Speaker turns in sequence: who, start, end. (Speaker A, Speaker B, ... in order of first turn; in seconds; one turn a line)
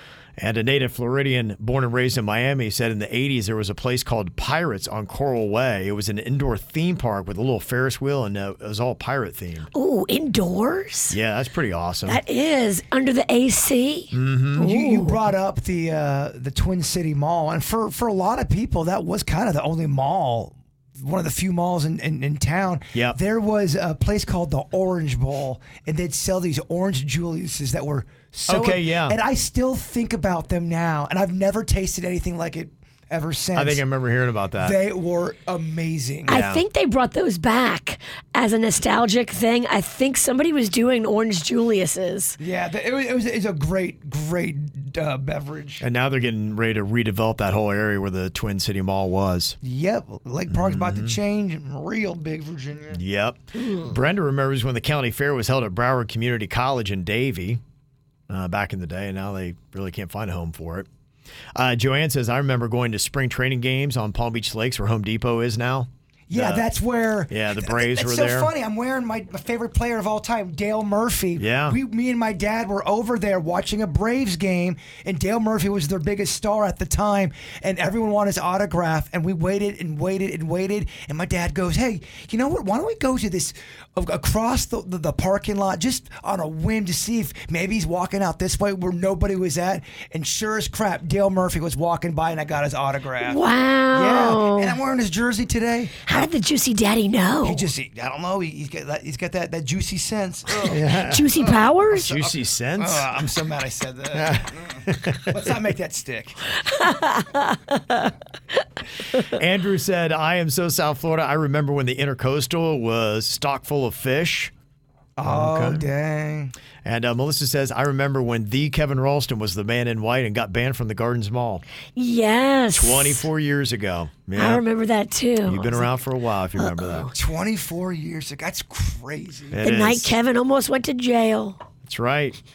Speaker A: 0.4-9.7
Speaker B: 9.7-11.2
Speaker A: 11.1-12.2
Speaker B: 12.1-15.3
Speaker A: 14.1-14.7
Speaker C: 14.6-33.8
Speaker A: 28.5-29.2
Speaker A: 33.5-34.8
Speaker C: 34.6-36.4
Speaker B: 36.3-42.4
Speaker A: 36.3-36.6
Speaker C: 42.4-45.9
Speaker A: 45.8-49.6
Speaker C: 49.6-53.0
Speaker A: 50.5-51.2
Speaker A: 52.9-57.6
Speaker A: 58.3-60.9
Speaker A: 61.5-66.7
Speaker C: 66.3-93.4
Speaker A: 67.3-68.5
Speaker A: 71.4-71.8
Speaker B: 93.2-94.8
Speaker C: 93.9-96.3
Speaker B: 96.0-97.7
Speaker C: 97.4-100.8
Speaker A: 100.6-101.3
Speaker B: 101.1-102.1
Speaker A: 101.9-103.1
Speaker C: 101.9-106.5
Speaker A: 104.1-105.4
Speaker B: 106.7-108.0
Speaker A: 109.1-114.5
Speaker C: 115.2-116.5
Speaker A: 115.2-115.9
Speaker A: 116.8-121.6
Speaker B: 122.0-123.2
Speaker A: 122.8-124.6
Speaker B: 124.4-125.9
Speaker A: 125.5-127.1
Speaker B: 126.6-127.1
Speaker C: 127.1-129.7
Speaker A: 129.5-130.2
Speaker B: 129.6-131.6
Speaker A: 131.8-132.4